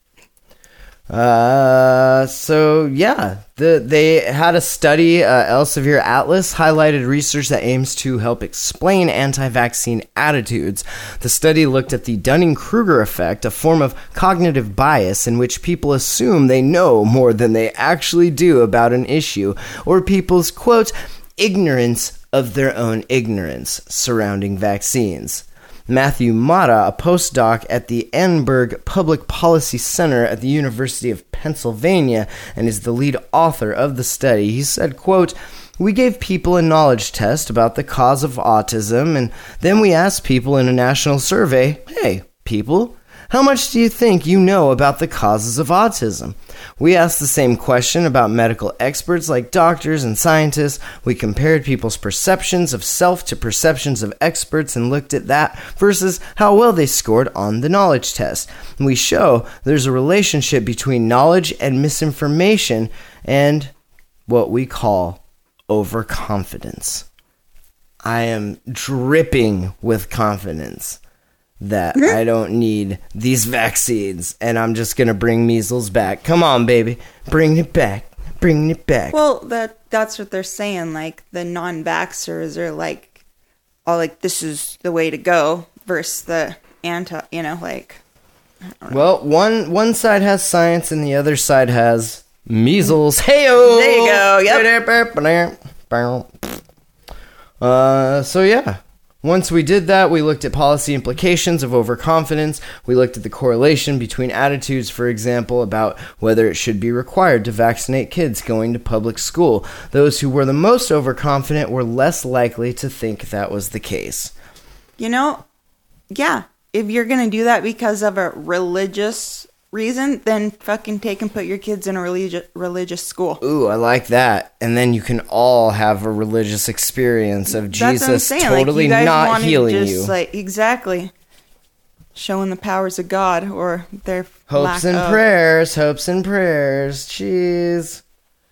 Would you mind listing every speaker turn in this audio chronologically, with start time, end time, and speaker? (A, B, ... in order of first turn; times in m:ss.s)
0:01.1-1:03.7 A
1:04.3-1:07.1 A
1:08.0-1:11.0 A
1:11.6-1:19.2 A
1:19.1-1:23.2 B
1:23.9-1:28.0 B
1:28.9-1:36.6 A
1:33.6-1:34.7 B
1:37.6-1:54.3 A
1:55.0-1:55.4 B
1:56.1-2:03.4 B
2:03.4-2:10.1 A
2:07.5-2:11.1 B
2:12.2-2:15.2 B
2:14.5-2:18.0 A